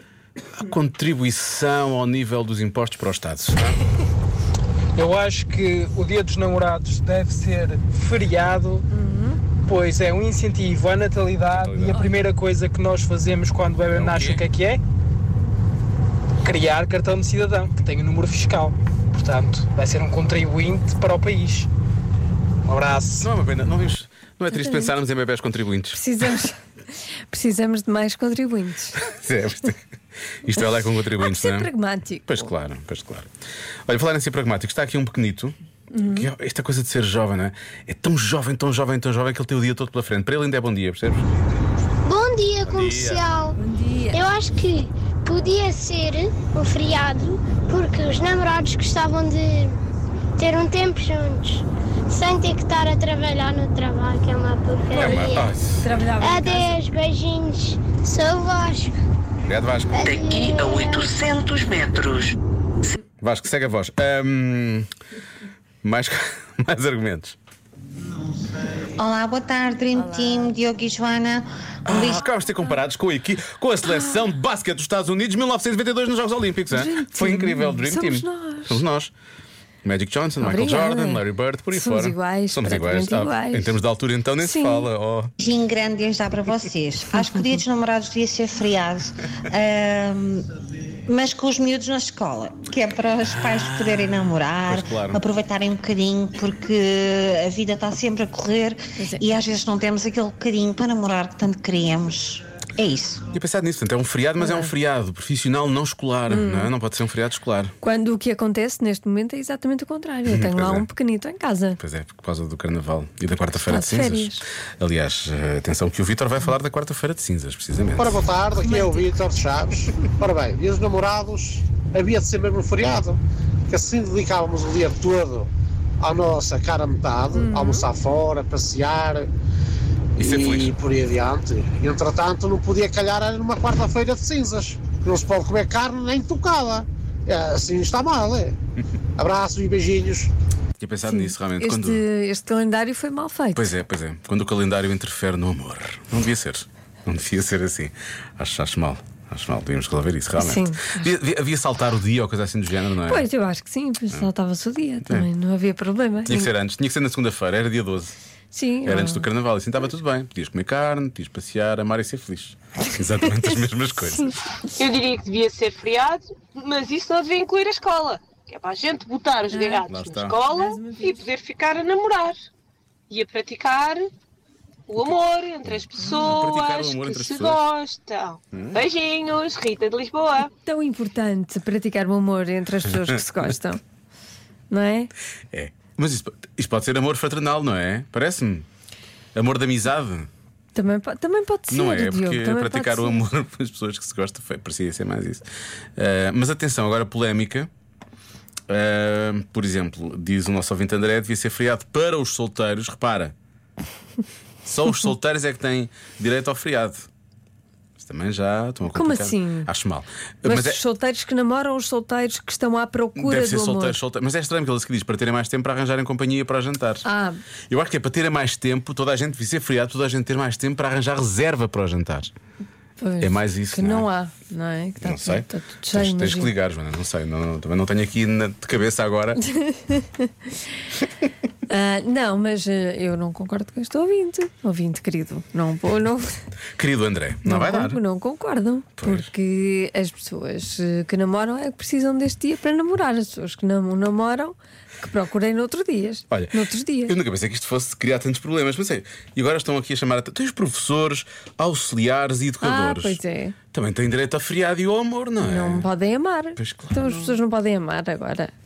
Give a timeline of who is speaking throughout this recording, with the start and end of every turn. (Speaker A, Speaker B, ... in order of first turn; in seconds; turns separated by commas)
Speaker A: 0.5-3.8, Speaker B: 5.0-8.9, Speaker C: 8.9-9.4, Speaker B: 9.7-14.8, Speaker A: 11.5-12.0, Speaker A: 13.9-14.4, Speaker B: 16.4-21.7, Speaker B: 22.6-23.3, Speaker A: 23.2-26.0, Speaker C: 24.5-25.0, Speaker C: 25.9-26.6, Speaker C: 27.3-29.0, Speaker A: 29.0-29.8, Speaker A: 30.4-31.7, Speaker C: 31.2-32.5, Speaker A: 32.3-33.3, Speaker A: 33.9-41.5, Speaker C: 35.9-36.3, Speaker D: 42.0-43.6, Speaker A: 42.6-43.2, Speaker C: 43.6-44.2, Speaker D: 44.1-49.8, Speaker D: 50.4-55.5, Speaker A: 54.9-55.9, Speaker C: 55.0-55.2, Speaker C: 55.8-56.8, Speaker D: 56.2-59.0, Speaker A: 59.5-60.0, Speaker D: 59.9-61.1, Speaker E: 60.0-63.0, Speaker A: 63.2-64.9, Speaker A: 65.8-67.4, Speaker F: 68.5-72.2, Speaker A: 71.9-79.1, Speaker C: 73.9-74.2, Speaker C: 76.7-78.8, Speaker A: 79.8-85.3, Speaker C: 80.4-83.8, Speaker C: 84.4-84.9, Speaker F: 85.4-90.4, Speaker C: 87.2-87.5, Speaker F: 91.1-103.2, Speaker A: 93.2-95.2, Speaker C: 99.0-99.3, Speaker A: 103.3-107.7, Speaker C: 104.4-104.7, Speaker C: 106.3-106.7, Speaker C: 107.8-111.8, Speaker A: 110.3-110.9, Speaker A: 111.8-118.2, Speaker C: 113.6-114.4, Speaker G: 118.0-123.2, Speaker C: 118.6-119.1, Speaker G: 123.7-125.5, Speaker G: 126.0-129.3, Speaker C: 127.3-127.9, Speaker G: 130.2-138.6, Speaker A: 130.2-130.8, Speaker G: 139.2-140.3, Speaker A: 140.8-142.0, Speaker C: 141.1-143.7, Speaker A: 143.6-153.3, Speaker C: 150.4-151.1, Speaker C: 153.1-156.5, Speaker A: 156.3-158.2, Speaker C: 158.5-159.3, Speaker A: 158.8-164.3, Speaker H: 164.8-169.6, Speaker B: 167.2-167.5, Speaker B: 168.1-171.8, Speaker C: 169.5-171.2, Speaker A: 169.9-170.4, Speaker H: 171.1-172.4, Speaker H: 173.1-174.0, Speaker H: 174.9-176.0, Speaker A: 175.0-177.6, Speaker C: 176.0-176.3, Speaker B: 176.0-177.0, Speaker H: 177.0-180.5, Speaker A: 178.5-178.8, Speaker C: 180.6-183.8, Speaker A: 182.9-183.2, Speaker C: 184.7-185.1, Speaker A: 185.5-188.7, Speaker A: 189.3-190.3, Speaker C: 190.8-193.2, Speaker A: 191.7-195.4, Speaker A: 196.0-197.7, Speaker A: 198.7-203.3, Speaker A: 204.7-207.1, Speaker A: 208.0-210.8, Speaker C: 208.9-209.7, Speaker C: 210.4-214.0, Speaker A: 213.2-217.1, Speaker C: 217.0-217.4, Speaker A: 217.7-222.3, Speaker C: 223.0-226.5, Speaker A: 223.2-224.1, Speaker A: 225.0-229.4, Speaker C: 229.6-230.3, Speaker C: 231.7-236.4, Speaker A: 236.8-238.0, Speaker C: 237.4-247.2, Speaker A: 239.0-239.3, Speaker A: 246.3-253.2, Speaker C: 252.6-253.6, Speaker A: 253.7-255.9, Speaker C: 255.4-258.5, Speaker A: 256.6-257.4